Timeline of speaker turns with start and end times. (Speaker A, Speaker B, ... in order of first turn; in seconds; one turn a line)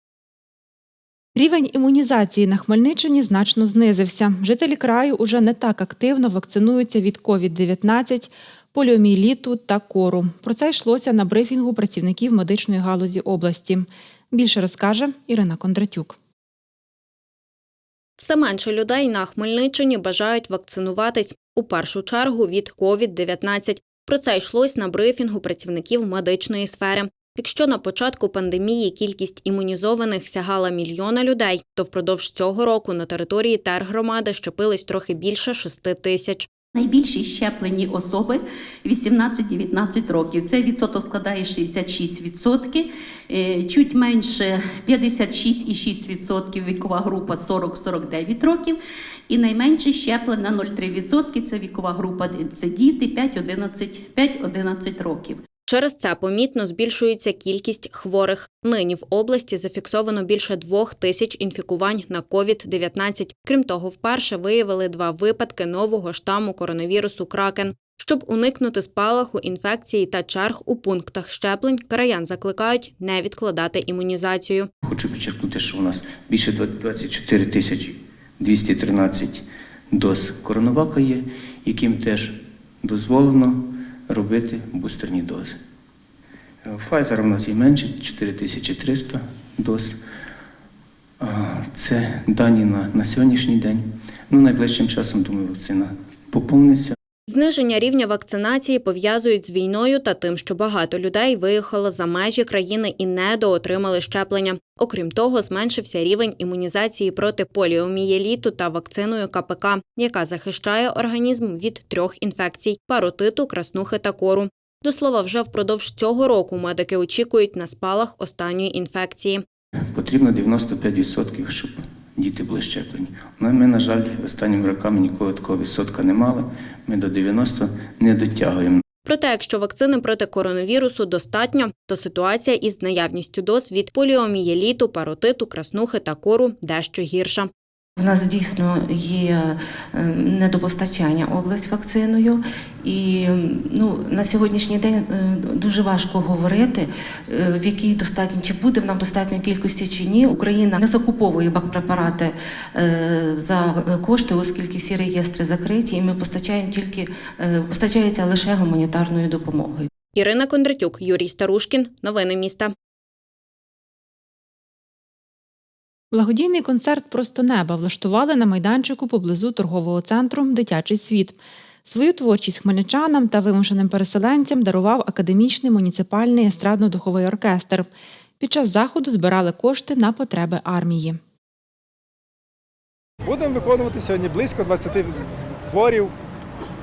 Speaker A: 1.4-16.1
Speaker B: 18.2-36.5
Speaker C: 36.7-48.8
Speaker C: 49.3-55.4
Speaker B: 55.7-74.7
Speaker D: 74.8-85.5
Speaker D: 86.6-89.9
Speaker D: 91.2-96.9
Speaker B: 97.3-119.4
Speaker D: 119.9-128.8
Speaker B: 129.0-137.5
Speaker E: 138.0-159.9
Speaker B: 160.1-162.7
Speaker A: 166.1-177.9
Speaker A: 178.4-181.2
Speaker F: 183.3-185.2
Speaker F: 185.7-186.1